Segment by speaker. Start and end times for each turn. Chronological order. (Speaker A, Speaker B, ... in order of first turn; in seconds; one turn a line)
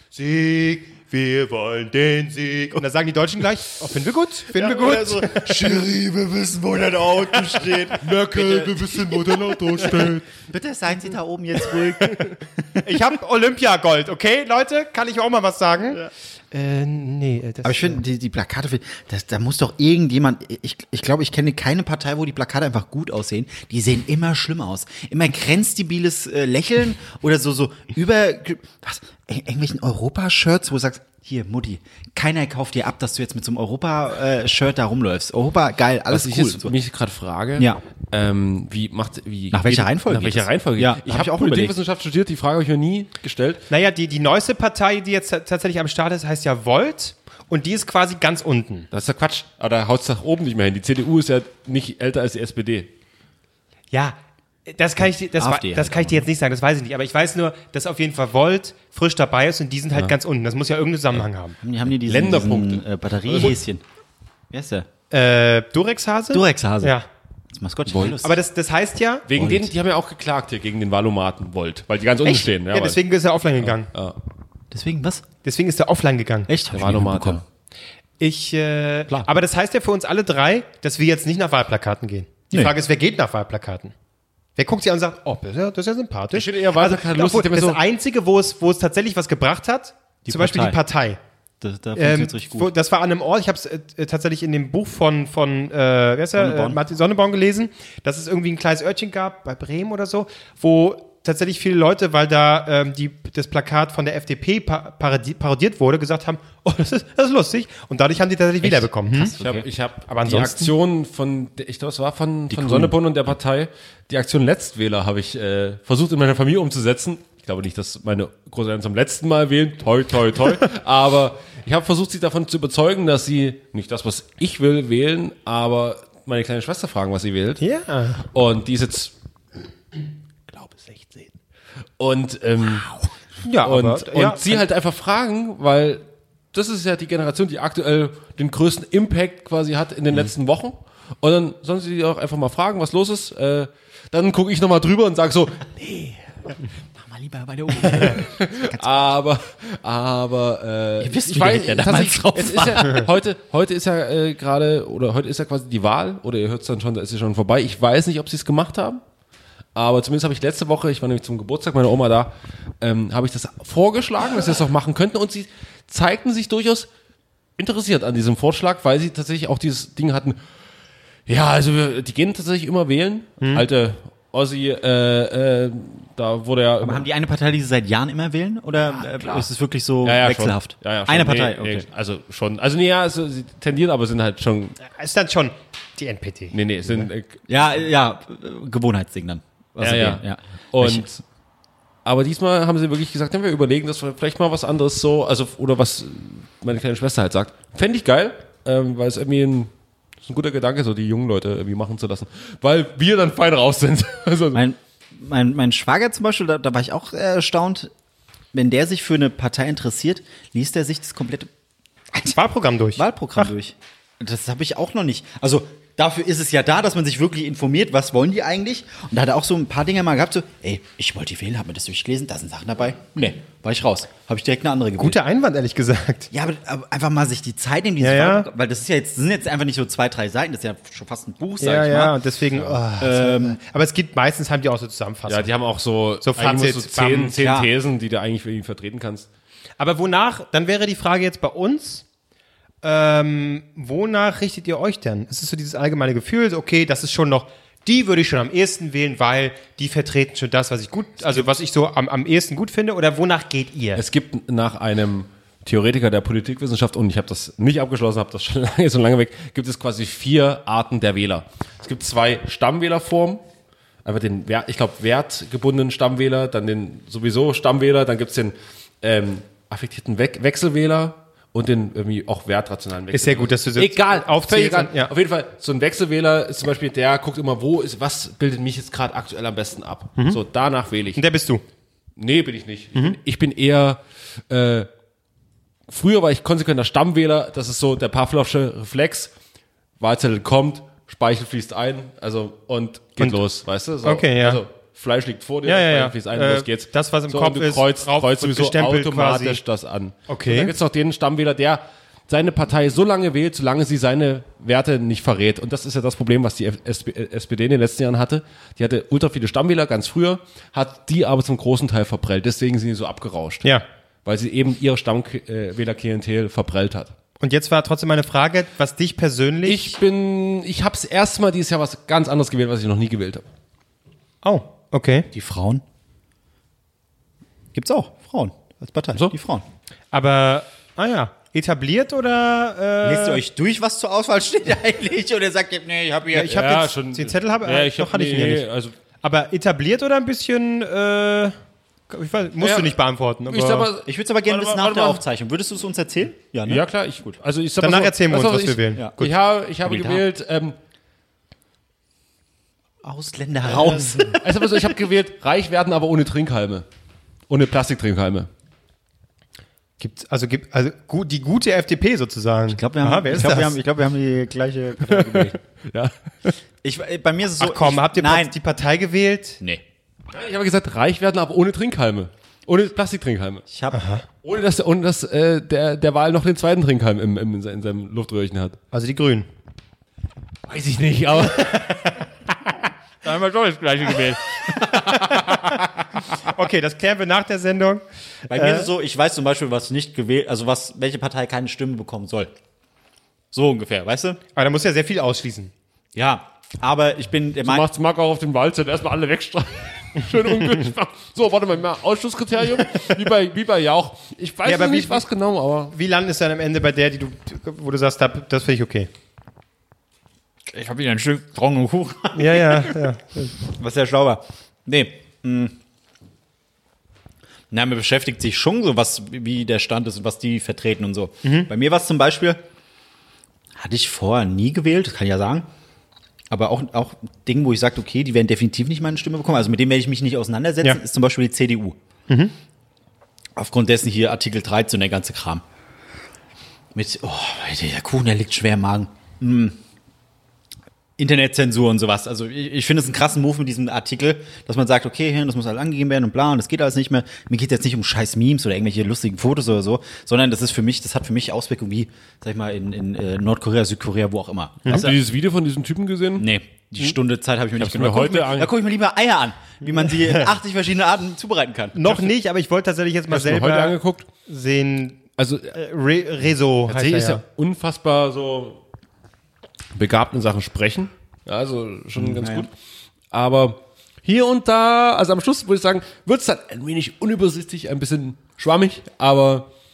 Speaker A: 0.1-1.3
Speaker B: 1.9-5.7
Speaker A: 4.5-12.8
Speaker C: 8.0-10.3
Speaker B: 12.7-18.0
Speaker A: 17.6-36.7
Speaker C: 36.1-43.6
Speaker A: 39.5-41.8
Speaker B: 43.7-48.9
Speaker C: 48.9-52.9
Speaker B: 53.9-61.5
Speaker A: 55.3-56.2
Speaker A: 61.6-63.8
Speaker C: 61.9-63.6
Speaker A: 64.5-64.9
Speaker B: 65.1-67.1
Speaker A: 66.3-66.9
Speaker A: 67.5-68.4
Speaker C: 67.9-68.2
Speaker B: 68.2-69.2
Speaker C: 69.3-73.0
Speaker A: 69.3-69.7
Speaker B: 72.2-73.9
Speaker C: 73.6-74.1
Speaker A: 74.7-75.2
Speaker B: 75.4-76.5
Speaker A: 76.5-77.4
Speaker C: 76.7-77.4
Speaker B: 78.2-83.9
Speaker B: 84.5-91.2
Speaker C: 86.3-87.8
Speaker A: 90.2-90.8
Speaker A: 91.6-92.7
Speaker B: 92.0-109.3
Speaker A: 96.3-96.8
Speaker A: 108.6-109.7
Speaker C: 109.4-127.6
Speaker B: 110.1-110.7
Speaker A: 112.5-112.9
Speaker B: 127.6-128.2
Speaker C: 128.2-129.1
Speaker C: 130.5-131.2
Speaker C: 132.0-133.0
Speaker B: 133.4-134.6
Speaker C: 133.5-146.3
Speaker A: 146.9-148.9
Speaker C: 147.8-159.0
Speaker A: 151.0-153.1
Speaker C: 159.7-166.9
Speaker C: 167.6-170.4
Speaker C: 171.3-177.1
Speaker A: 176.8-181.8
Speaker C: 178.9-179.5
Speaker C: 180.0-184.8
Speaker B: 184.9-186.6
Speaker C: 186.5-187.4
Speaker A: 186.8-191.0
Speaker C: 189.8-191.2
Speaker C: 192.0-199.7
Speaker C: 200.2-204.6
Speaker A: 204.5-207.9
Speaker A: 208.5-211.5
Speaker B: 212.3-213.5
Speaker A: 212.9-225.2
Speaker B: 225.0-226.3
Speaker A: 226.3-232.2
Speaker B: 228.0-228.5
Speaker B: 231.6-235.5
Speaker A: 233.0-233.6
Speaker C: 235.3-239.3
Speaker B: 236.2-237.4
Speaker A: 237.4-237.7
Speaker B: 239.8-242.0
Speaker B: 242.8-254.0
Speaker C: 253.9-263.4
Speaker C: 264.0-281.2
Speaker B: 273.1-275.1
Speaker B: 281.1-281.6
Speaker C: 282.2-284.9
Speaker C: 285.9-289.3
Speaker C: 290.0-313.7
Speaker B: 294.0-294.6
Speaker B: 295.6-299.6
Speaker B: 300.3-300.7
Speaker C: 314.2-317.1
Speaker B: 317.4-319.9
Speaker C: 319.6-323.4
Speaker B: 324.4-325.3
Speaker A: 325.3-325.8
Speaker A: 327.7-329.6
Speaker B: 330.1-333.4
Speaker A: 333.0-336.5
Speaker B: 336.3-338.6
Speaker C: 336.4-338.9
Speaker B: 339.2-341.5
Speaker B: 342.1-343.9
Speaker C: 342.6-345.2
Speaker A: 344.1-347.3
Speaker C: 346.6-350.8
Speaker B: 347.8-349.3
Speaker A: 349.8-350.2
Speaker A: 353.0-355.0
Speaker C: 353.8-356.8
Speaker C: 357.5-358.5
Speaker B: 360.0-363.7
Speaker A: 362.7-365.6
Speaker C: 365.0-366.6
Speaker A: 366.8-368.5
Speaker B: 367.6-369.6
Speaker C: 370.3-373.6
Speaker A: 373.7-374.0
Speaker B: 373.9-374.2
Speaker C: 374.4-378.8
Speaker B: 378.9-379.5
Speaker C: 380.7-382.0
Speaker B: 381.4-382.2
Speaker A: 383.2-385.7
Speaker B: 384.9-388.9
Speaker A: 388.5-392.5
Speaker A: 393.5-394.4
Speaker B: 394.5-395.7
Speaker A: 396.1-397.9
Speaker C: 397.6-405.9
Speaker B: 404.6-405.2
Speaker B: 405.9-409.1
Speaker A: 410.7-413.1
Speaker B: 412.3-413.6
Speaker A: 413.6-415.8
Speaker A: 417.7-422.6
Speaker B: 421.4-421.7
Speaker A: 423.7-425.7
Speaker A: 426.5-432.0
Speaker A: 433.6-435.6
Speaker A: 436.9-439.8
Speaker A: 441.2-455.2
Speaker B: 454.8-455.1
Speaker C: 454.9-456.5
Speaker A: 456.4-462.0
Speaker C: 457.8-458.7
Speaker B: 460.1-460.4
Speaker B: 461.9-465.2
Speaker C: 463.3-464.3
Speaker C: 465.4-465.7
Speaker B: 465.7-467.4
Speaker C: 466.9-468.8
Speaker C: 469.9-472.7
Speaker A: 472.1-472.7
Speaker C: 473.3-479.7